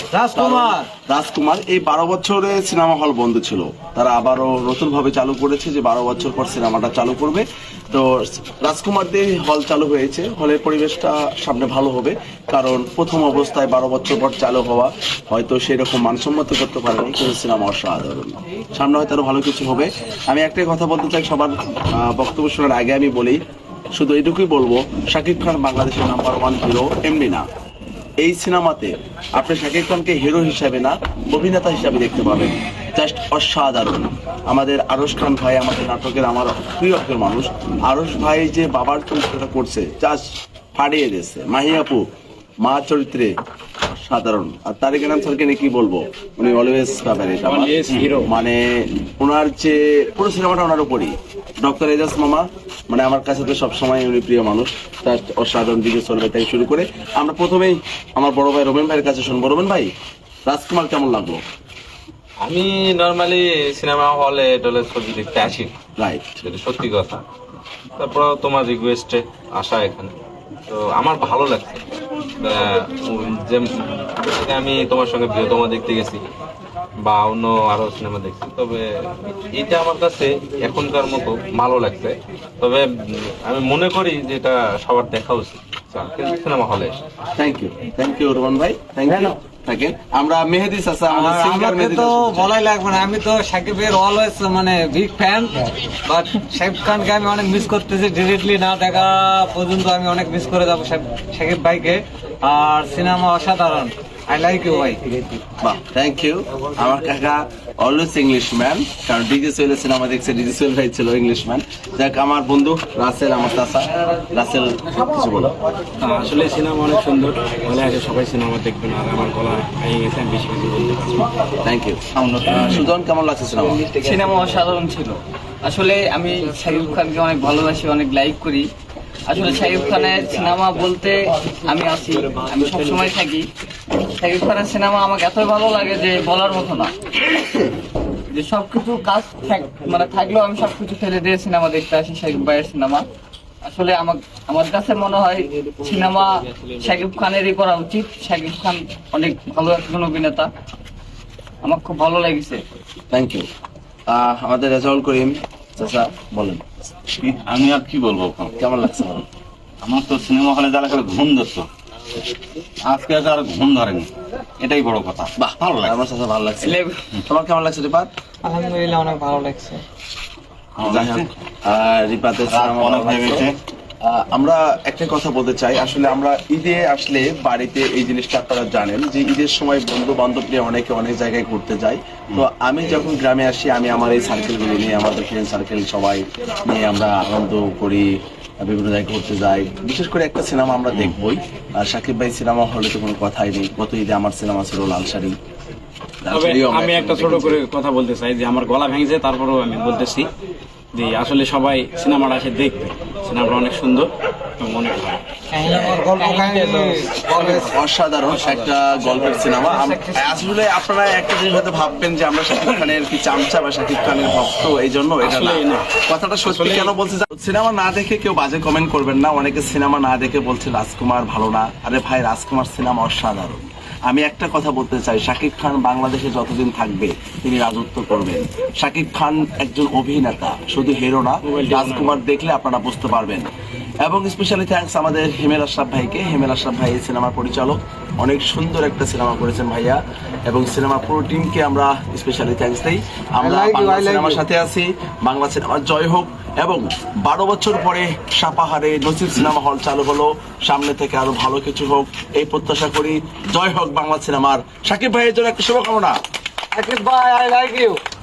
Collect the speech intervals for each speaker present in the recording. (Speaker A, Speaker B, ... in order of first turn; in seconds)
Speaker A: 0.1-0.9, 47.7-48.2, 91.1-105.0, 168.5-169.8, 205.5-207.7, 208.5-210.4, 243.4-244.4, 256.8-258.0
Speaker B: 0.3-23.4, 23.9-27.4, 28.2-42.0, 42.6-43.3, 43.9-59.9, 60.5-61.4, 66.0-66.4, 87.4-92.5, 105.6-115.5, 121.6-123.8, 153.1-153.5, 154.1-156.9, 158.6-159.2, 165.4-168.1, 170.8-173.5, 174.0-195.3, 196.2-197.6, 205.6-206.1, 207.2-233.5, 234.0-256.1
Speaker C: 62.4-65.7, 66.4-67.2, 68.0-70.1, 70.7-71.8, 72.4-76.2, 77.0-78.8, 79.5-82.9, 83.5-87.0
Speaker D: 116.0-121.2, 196.3-200.3, 200.9-205.2, 215.4-215.7
Speaker E: 122.1-122.9, 157.2-158.5, 159.8-161.7, 162.8-166.0, 170.8-171.3, 172.5-173.6
Speaker F: 124.0-128.7, 129.3-133.5, 134.2-136.9, 138.3-143.1, 143.6-150.5, 151.6-152.7, 166.6-167.0